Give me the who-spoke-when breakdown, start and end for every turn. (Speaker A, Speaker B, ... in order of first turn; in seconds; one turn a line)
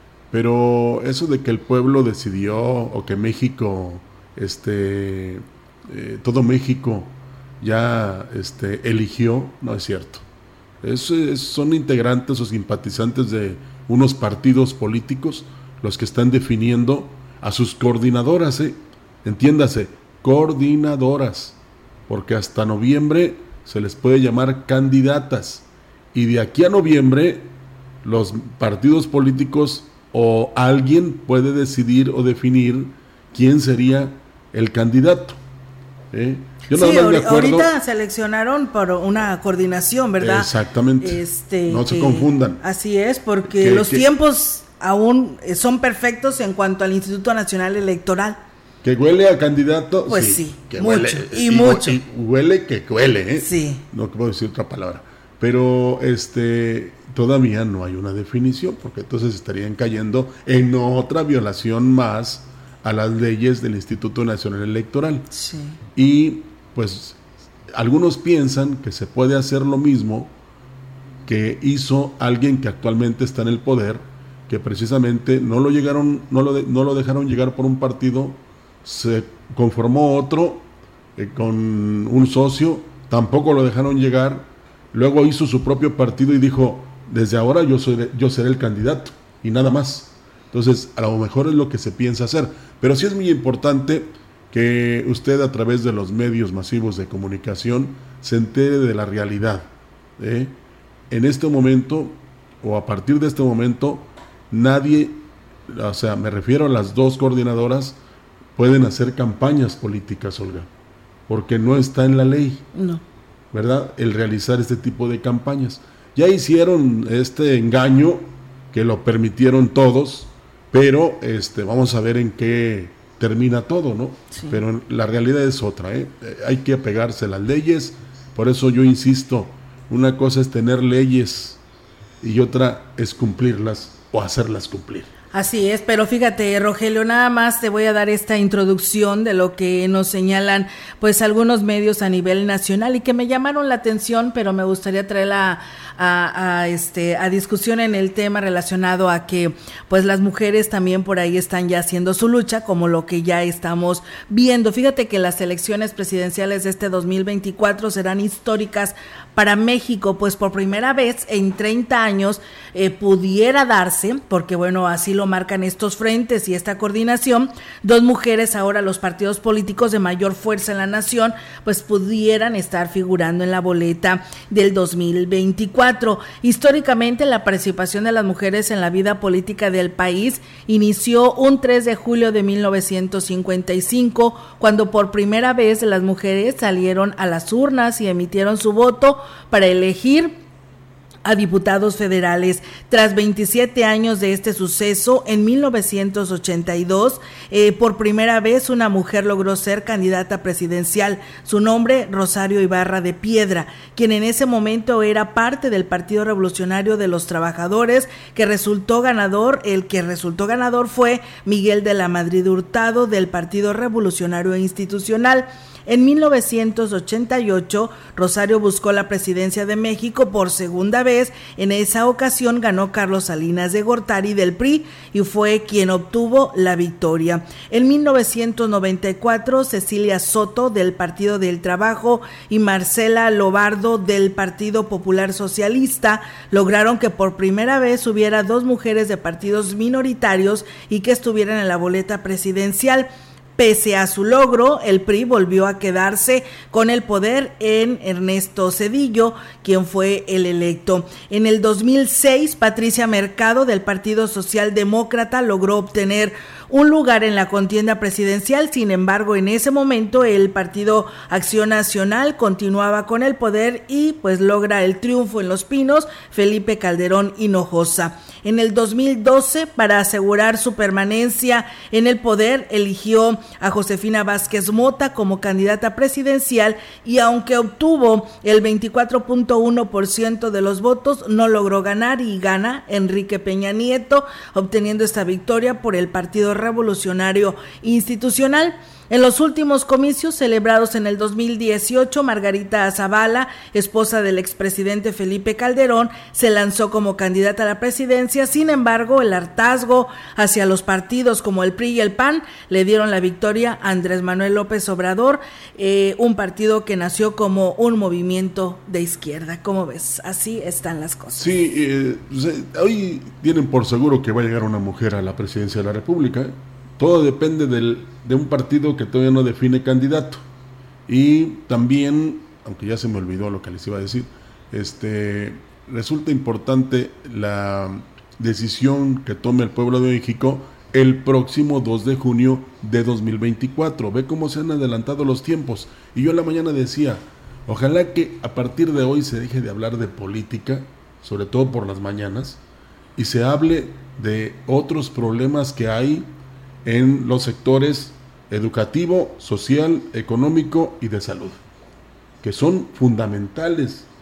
Speaker A: 0.3-10.2
Speaker A: 10.8-27.5
Speaker A: 28.0-35.4
Speaker A: 36.1-37.7
Speaker B: 36.7-40.5
Speaker A: 40.2-42.6
Speaker B: 41.0-48.4
Speaker A: 43.5-44.0
Speaker A: 48.8-65.3
Speaker B: 50.1-52.0
Speaker B: 53.4-53.8
Speaker B: 65.3-65.8
Speaker A: 66.0-67.2
Speaker A: 67.7-70.3
Speaker A: 71.2-100.5
Speaker A: 101.1-108.0
Speaker A: 108.6-110.7
Speaker A: 111.3-112.7
Speaker B: 112.8-113.0
Speaker A: 113.5-131.6
Speaker B: 124.3-124.6
Speaker A: 132.2-135.1
Speaker B: 135.3-190.4
Speaker B: 191.2-311.5
Speaker A: 311.3-320.4
Speaker A: 321.1-342.6
Speaker A: 343.2-346.3
Speaker A: 346.9-351.6
Speaker A: 352.4-354.1